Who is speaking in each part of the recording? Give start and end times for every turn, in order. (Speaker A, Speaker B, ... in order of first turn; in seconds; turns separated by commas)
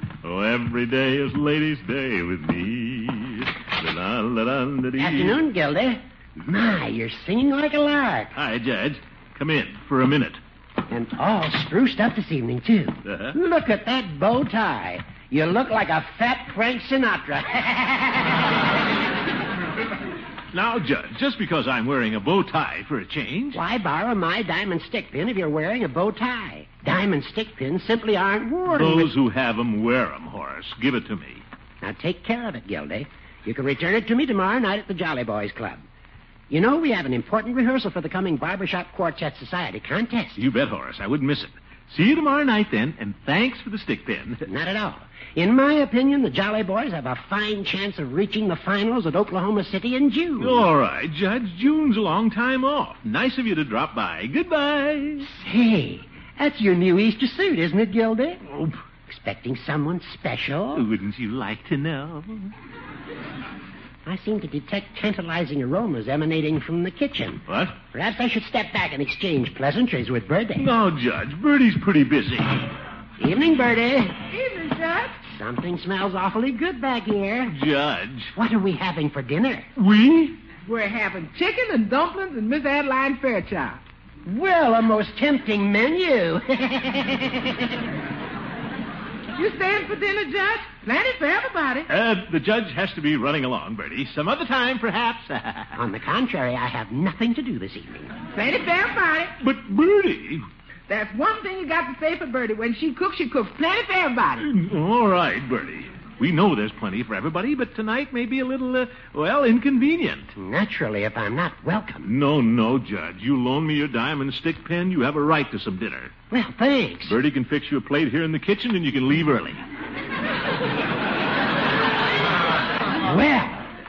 Speaker A: 0.2-5.4, Speaker B: 5.0-8.3, Speaker A: 8.3-10.4, Speaker B: 10.9-18.5, Speaker A: 13.1-13.4, Speaker A: 20.5-23.6, Speaker B: 23.5-29.1, Speaker A: 28.7-31.4, Speaker B: 31.8-35.9, Speaker B: 36.5-40.4, Speaker A: 40.4-44.4, Speaker B: 44.5-50.7, Speaker A: 50.4-55.3, Speaker B: 55.2-58.4, Speaker A: 58.5-58.8, Speaker B: 59.1-60.9, Speaker A: 60.7-62.5, Speaker B: 64.1-70.7, Speaker A: 67.5-67.8, Speaker A: 70.6-72.7, Speaker B: 73.2-74.2, Speaker C: 74.3-75.2, Speaker B: 75.3-77.5, Speaker A: 77.5-78.3, Speaker B: 78.4-79.7, Speaker A: 79.8-80.4, Speaker C: 80.6-83.8, Speaker B: 84.2-87.7, Speaker C: 89.4-91.9, Speaker A: 91.9-95.8, Speaker B: 95.8-98.2, Speaker C: 98.3-99.3, Speaker A: 99.4-100.5, Speaker C: 100.9-104.5, Speaker A: 104.4-110.3, Speaker B: 110.4-112.1, Speaker A: 112.0-116.1, Speaker B: 116.3-117.2, Speaker A: 117.1-119.6, Speaker B: 123.0-123.7